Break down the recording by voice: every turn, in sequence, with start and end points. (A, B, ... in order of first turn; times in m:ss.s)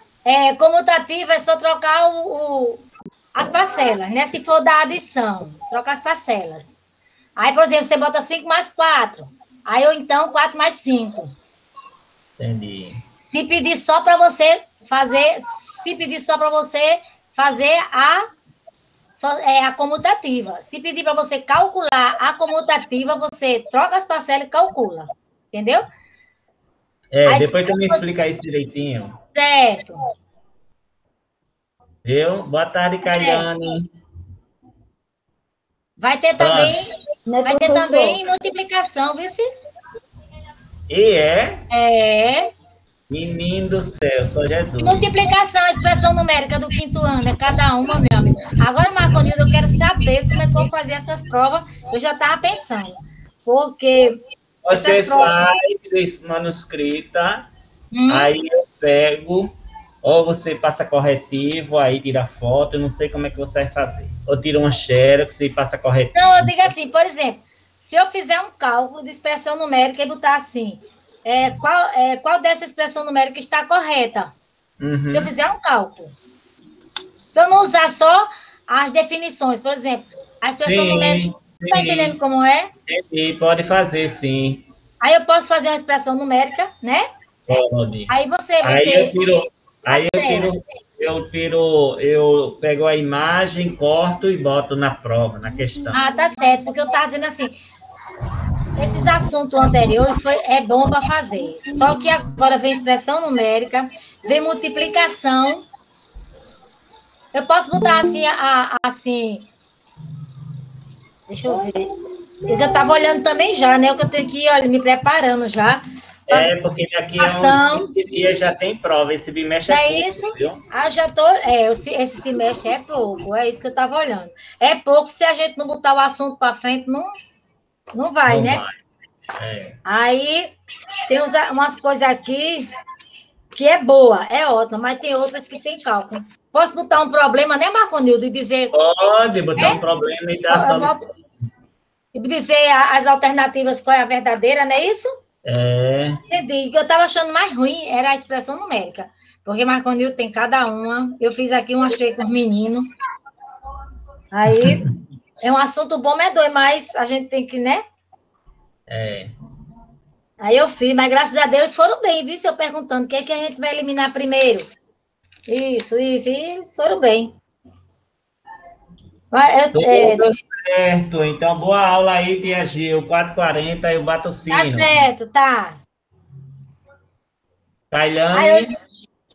0:00.2-0:06.8 A
0:07.4-0:11.3 A
0:12.4-0:13.0 B
0:13.2-0:18.3 A
0:19.1-0:25.8 A
0:27.1-0:29.2 B
0:27.3-0:28.2 A
0:29.4-0:30.0 A
0:32.0-0:33.9 B
0:33.0-0:33.5 A
0:36.0-0:36.9 A
0:36.4-0:36.8 B
0:37.3-0:38.2 C
0:37.4-0:39.5 A
0:40.9-0:41.7 B
0:41.7-0:42.5 A
0:43.1-0:45.1 B
0:44.8-0:54.2 A
0:54.6-0:57.5 B
0:54.7-0:55.4 A
0:57.9-0:58.3 A
0:58.1-1:06.7 B
1:06.2-1:14.4 A
1:14.8-1:15.3 B
1:15.1-1:16.1 A
1:17.4-1:22.7 A
1:20.6-1:22.2 B
1:22.9-1:24.7 B
1:25.0-1:27.0 A
1:27.5-1:28.1 B
1:28.1-1:29.4 A
1:28.6-1:36.0 B
1:29.9-1:30.5 A
1:35.8-1:36.4 C
1:35.9-1:37.6 A
1:38.8-1:45.6 A
1:41.5-1:42.1 C
1:47.3-1:49.5 A
1:47.8-1:48.3 C
1:51.3-1:51.9 A
1:51.5-1:53.6 C
1:52.5-1:56.5 A
1:56.3-2:00.6 B
1:57.2-1:57.9 A
1:59.7-2:07.1 A
2:07.9-2:08.6 A
2:08.3-2:08.8 B
2:09.4-2:09.8 B
2:09.9-2:10.5 A
2:11.1-2:12.7 A
2:13.5-2:19.8 A
2:18.7-2:21.0 B
2:20.5-2:21.0 A
2:22.2-2:25.1 A
2:25.4-2:26.2 B
2:26.3-2:32.8 A
2:34.3-2:34.9 A
2:34.6-2:34.9 B
2:35.4-2:37.8 A
2:38.9-2:39.3 B
2:40.4-2:44.7 A
2:45.5-2:47.3 A
2:49.3-2:50.3 A
2:49.8-2:55.1 B
2:54.5-2:55.8 A
2:57.9-2:58.7 B
2:58.3-2:58.7 A